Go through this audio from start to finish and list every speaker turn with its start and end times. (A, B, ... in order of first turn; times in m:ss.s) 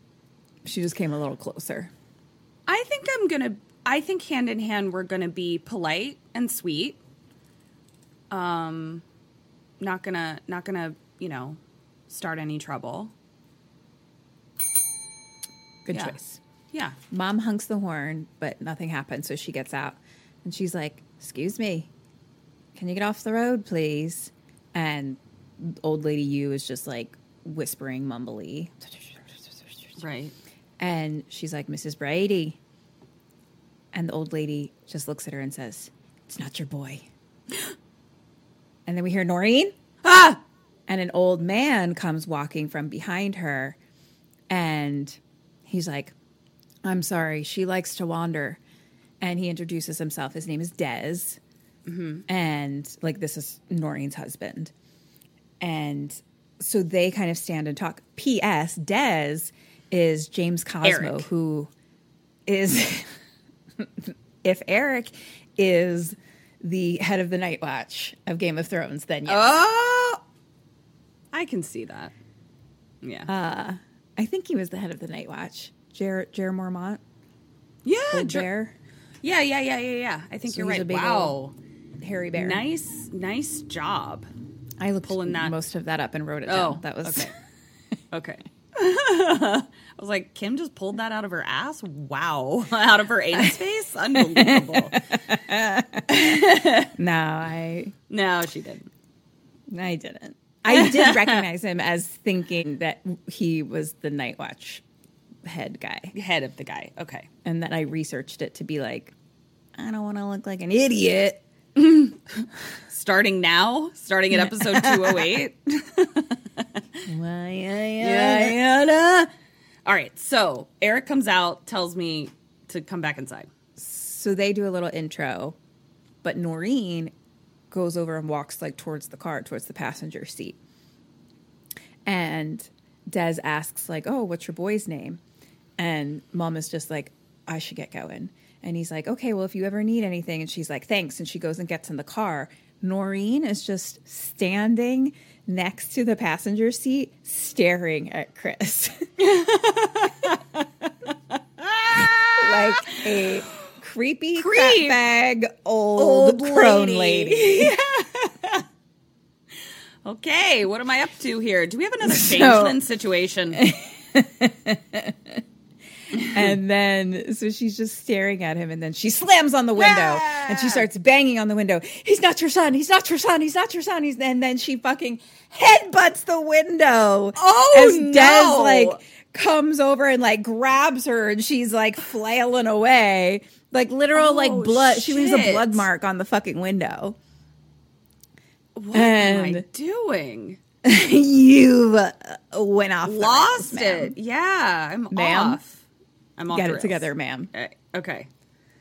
0:00.6-0:01.9 A
0:02.7-0:07.0 B
0:08.3-0:09.0 B
0:09.8-0:13.1 B
0:15.8-0:16.4 A
0:16.7-0:17.0 B
0:17.1-0:21.9 A
0:22.8-0:30.0 A
0:30.0-0:30.4 B
0:30.8-0:32.6 A
0:33.9-0:37.1 A
0:38.9-0:39.8 A
0:40.0-0:40.4 B
0:40.9-0:43.8 A
0:44.5-0:46.1 A
0:46.8-0:48.6 A
0:49.2-0:51.4 A
0:51.9-0:52.2 B
0:52.3-0:54.7 A
0:55.6-1:01.7 A
1:00.8-1:01.3 B
1:02.5-1:03.2 A
1:03.8-1:09.7 A
1:09.3-1:10.2 B
1:11.3-1:12.1 B
1:13.0-1:13.3 B
1:13.3-1:17.0 A
1:17.8-1:18.5 B
1:18.1-1:18.8 A
1:19.2-1:21.6 B
1:20.5-1:21.4 A
1:22.0-1:22.7 A
1:22.3-1:24.3 B
1:24.8-1:27.3 A
1:25.1-1:25.6 B
1:26.5-1:27.3 B
1:28.1-1:35.2 B
1:34.2-1:36.2 A
1:36.1-1:36.9 B
1:37.0-1:38.0 A
1:38.1-1:38.9 B
1:39.7-1:44.8 A
1:40.7-1:41.4 B
1:45.4-1:46.1 A
1:46.1-1:47.3 B
1:47.4-1:49.1 A
1:49.8-1:51.4 A
1:51.8-1:56.8 B
1:54.3-1:55.4 A
1:57.1-1:59.3 A
1:58.0-1:58.6 B
1:59.8-2:03.5 B
2:03.8-2:05.6 A
2:06.2-2:07.1 A
2:07.7-2:10.6 A
2:12.0-2:15.2 A
2:15.8-2:29.1 A
2:29.2-2:33.5 B
2:32.4-2:37.8 A
2:34.4-2:35.0 B
2:36.0-2:38.6 B
2:40.0-2:43.6 B
2:42.0-2:42.8 A
2:43.5-2:45.4 A
2:46.1-2:46.4 B
2:46.2-3:07.2 A
2:49.8-2:50.9 B
2:57.4-2:59.0 B
3:04.1-3:05.9 B
3:08.8-3:10.6 B
3:08.9-3:09.6 A
3:10.8-3:14.2 A
3:13.0-3:15.8 B
3:15.1-3:15.6 A
3:16.4-3:18.3 B
3:16.5-3:17.5 A